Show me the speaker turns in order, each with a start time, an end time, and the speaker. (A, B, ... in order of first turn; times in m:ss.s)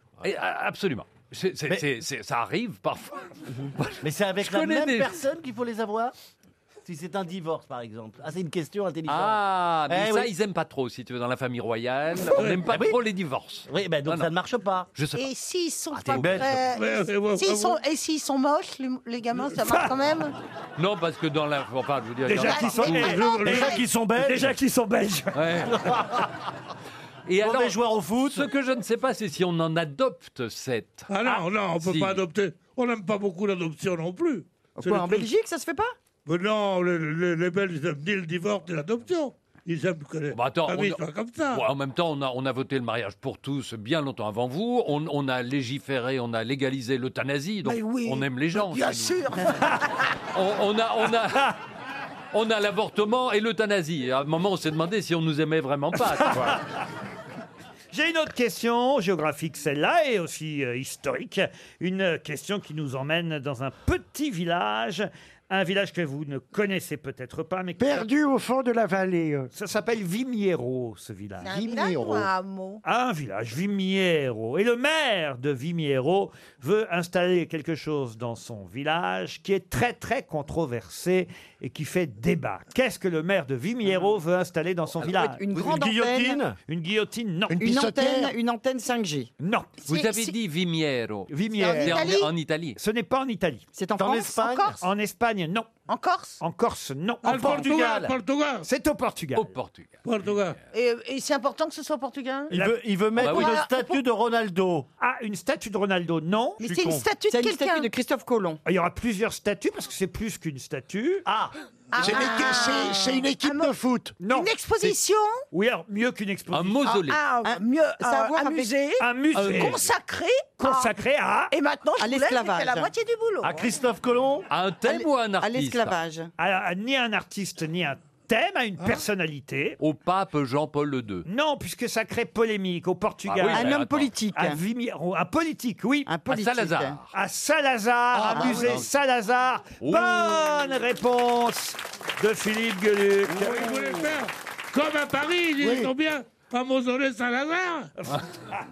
0:00.2-0:03.3 A
0:03.8-0:05.2 A
0:04.0-0:06.1 B
0:06.8-0:10.3 B
0:09.1-0:14.3 A
0:12.4-0:12.6 C
0:12.6-0:13.0 B
0:13.7-0:14.9 B
0:15.0-0:15.3 A
0:15.1-0:20.3 D
0:15.9-0:16.6 A
0:16.1-0:16.6 B
0:16.7-0:17.8 C
0:19.7-0:19.9 E
0:20.8-0:23.2 A
0:22.2-0:26.0 E
0:22.3-0:23.9 D
0:23.1-0:23.6 C
0:23.4-0:24.6 B
0:25.3-0:25.8 A
0:25.8-0:26.3 B
0:27.3-0:31.1 A
0:27.4-0:28.5 B
0:31.1-0:35.3 C
0:31.8-0:32.2 A
0:34.8-0:36.0 F
0:36.3-0:41.6 C
0:40.3-0:49.6 A
0:47.6-0:49.8 D
0:50.3-0:51.6 A
0:52.3-0:56.6 A
0:56.1-0:56.6 E
0:57.9-1:08.1 E
1:07.8-1:09.5 G
1:09.5-1:11.5 E
1:11.4-1:12.8 D
1:11.4-1:12.3 G
1:12.8-1:25.4 E
1:25.0-1:26.4 F
1:25.5-1:26.6 B
1:26.7-1:27.7 E
1:27.5-1:28.3 G
1:27.6-1:29.3 F
1:29.4-1:29.8 E
1:29.9-1:32.8 A
1:29.9-1:30.3 D
1:31.3-1:32.2 E
1:31.6-1:32.3 D
1:32.8-1:33.7 E
1:33.7-1:34.4 F
1:34.0-1:34.8 B
1:34.3-1:34.8 D
1:34.8-1:35.7 E
1:35.9-1:36.4 D
1:36.4-1:38.0 E
1:37.2-1:38.7 C
1:37.2-1:38.1 B
1:38.6-1:39.5 E
1:39.4-1:40.6 A
1:40.0-1:40.6 C
1:40.7-1:44.0 D
1:42.5-1:44.9 B
1:43.2-1:43.6 A
1:45.0-1:46.6 E
1:46.6-1:47.9 D
1:46.6-1:47.0 B
1:47.3-1:48.6 F
1:48.6-1:51.5 E
1:51.9-1:53.7 D
1:52.0-1:54.2 G
1:54.2-1:54.9 E
1:54.3-1:55.4 D
1:55.5-1:57.0 E
1:56.5-1:57.2 A
1:56.9-2:01.0 D
1:57.4-1:58.7 F
1:59.0-1:59.8 E
1:59.4-1:59.7 B
2:00.6-2:01.5 E
2:01.5-2:03.8 D
2:02.0-2:02.9 F
2:03.4-2:04.5 B
2:04.5-2:06.0 A
2:04.8-2:06.3 F
2:06.4-2:09.8 E
2:09.8-2:11.3 A
2:11.3-2:13.8 E
2:13.3-2:14.1 A
2:13.5-2:14.6 F
2:14.4-2:16.1 E
2:16.1-2:17.0 F
2:16.3-2:17.1 A
2:17.1-2:23.9 E
2:18.1-2:18.8 G
2:18.5-2:18.9 A
2:19.8-2:20.6 A
2:23.3-2:27.9 C
2:25.6-2:25.9 G